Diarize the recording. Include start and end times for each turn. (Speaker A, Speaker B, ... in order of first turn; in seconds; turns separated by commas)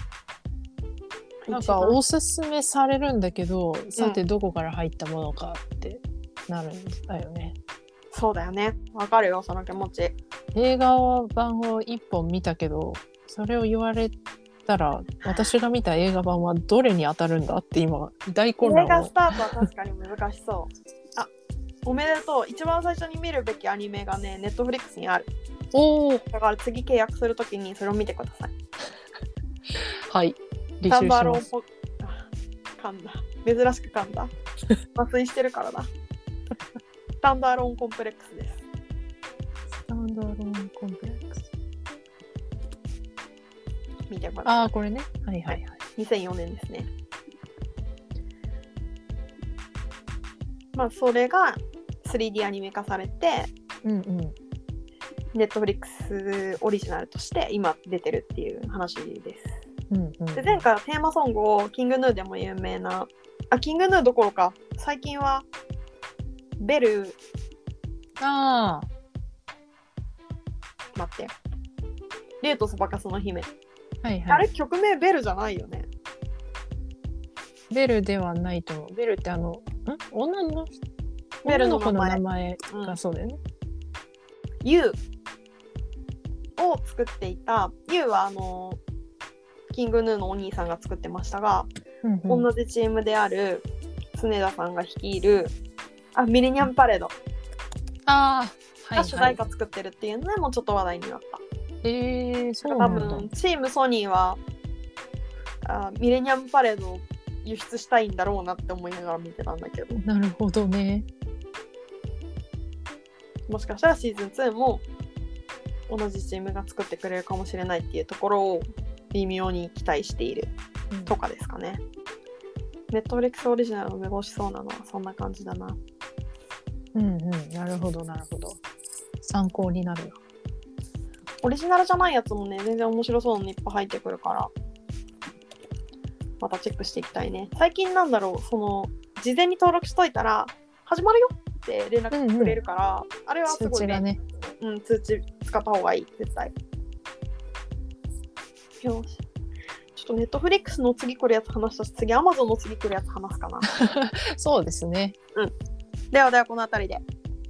Speaker A: 1.4-2.0, Speaker B: 1.5-7.5, Speaker A: 8.1-10.2, Speaker B: 10.5-14.1, Speaker B: 14.7-19.4, Speaker A: 15.2-15.5, Speaker A: 18.6-21.3, Speaker A: 21.8-25.3, Speaker B: 25.7-26.2, Speaker A: 26.3-28.5, Speaker B: 29.8-31.5, Speaker A: 30.9-32.3, Speaker A: 32.8-34.3, Speaker A: 34.9-35.9, Speaker A: 37.2-38.6, Speaker B: 39.7-41.5, Speaker A: 44.1-44.6, Speaker B: 44.4-45.8, Speaker A: 45.5-46.9, Speaker A: 50.7-53.5, Speaker B: 53.8-54.3, Speaker A: 55.3-59.5, Speaker B: 59.9-60.6, Speaker A: 60.3-65.5, Speaker A: 66.6-67.2, Speaker B: 68.2-68.9, Speaker A: 70.9-71.3, Speaker A: 72.4-73.5, Speaker B: 74.0-74.5, Speaker A: 74.3-75.9, Speaker B: 77.7-80.7, Speaker B: 81.4-83.4, Speaker A: 81.4-83.0, Speaker A: 84.6-85.0, Speaker A: 86.6-88.8, Speaker A: 89.7-91.7, Speaker B: 92.0-92.5, Speaker A: 92.3-95.5, Speaker A: 96.1-97.1, Speaker B: 98.0-99.4, Speaker A: 99.0-101.4, Speaker B: 101.8-103.3, Speaker A: 102.6-104.4, Speaker A: 105.6-110.0, Speaker B: 110.0-111.1, Speaker A: 113.5-114.8, Speaker A: 115.9-120.5, Speaker A: 121.0-121.8, Speaker A: 122.9-125.8, Speaker B: 126.9-128.6, Speaker B: 129.2-130.2, Speaker A: 131.4-134.5, Speaker A: 136.4-144.0, Speaker B: 142.1-142.6, Speaker B: 143.4-144.2, Speaker A: 144.6-146.5, Speaker A: 148.8-149.2, Speaker A: 149.9-153.7, Speaker B: 153.7-155.2, Speaker A: 156.1-157.0